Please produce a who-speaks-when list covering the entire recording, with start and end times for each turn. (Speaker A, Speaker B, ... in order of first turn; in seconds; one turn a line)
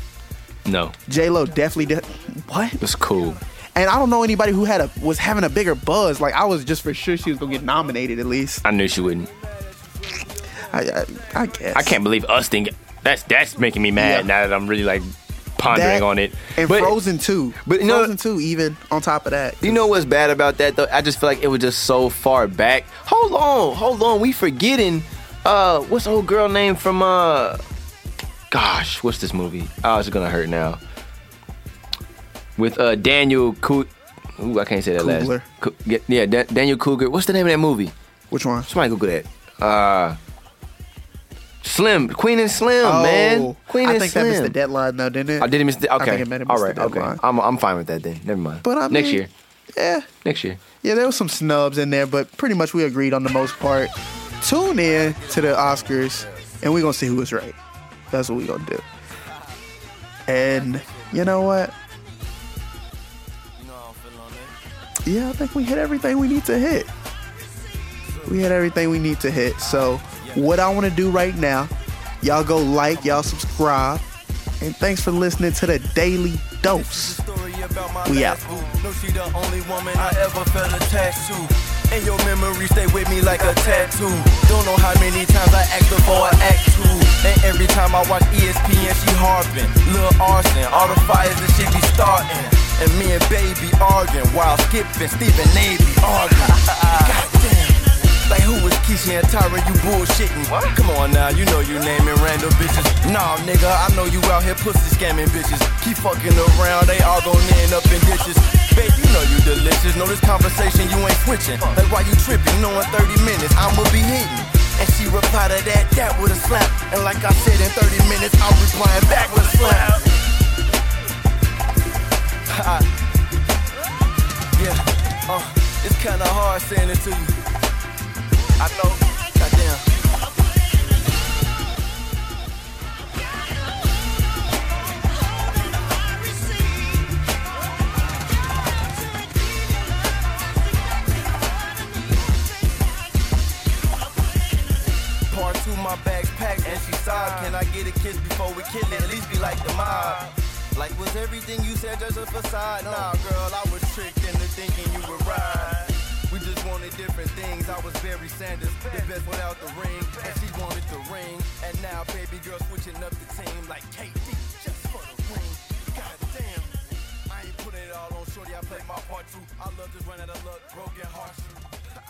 Speaker A: 0.7-1.0
Speaker B: 1.1-2.8
Speaker A: 2.8-3.4
Speaker B: 3.8-8.6
Speaker A: 8.6-9.3
Speaker B: 10.7-12.0
Speaker A: 11.7-17.0
Speaker B: 14.0-14.3
Speaker B: 15.7-19.9
Speaker A: 17.6-18.1
Speaker A: 19.6-27.6
Speaker A: 28.5-30.8
Speaker A: 32.6-37.9
Speaker B: 35.0-35.5
Speaker B: 38.3-38.7
Speaker A: 38.7-40.2
Speaker A: 41.6-44.6
Speaker B: 42.8-47.2
Speaker A: 45.4-49.3
Speaker B: 48.6-49.2
Speaker B: 49.8-50.1
Speaker A: 50.2-50.6
Speaker B: 50.8-57.6
Speaker C: 55.2-56.2
Speaker B: 58.1-58.8
Speaker B: 60.3-61.7
Speaker C: 60.6-61.0
Speaker C: 63.6-64.5
Speaker B: 65.1-66.9
Speaker C: 68.0-68.4
Speaker B: 68.3-71.7
Speaker C: 69.7-70.4
Speaker B: 72.2-74.0
Speaker B: 74.6-77.2
Speaker C: 76.7-120.1
Speaker B: 78.0-78.4
Speaker A: 100.5-100.8
Speaker C: 122.5-122.9
Speaker C: 124.5-127.4
Speaker C: 128.6-129.8
Speaker C: 135.6-137.1
Speaker C: 145.3-171.8
Speaker A: 147.0-147.6
Speaker A: 149.8-150.2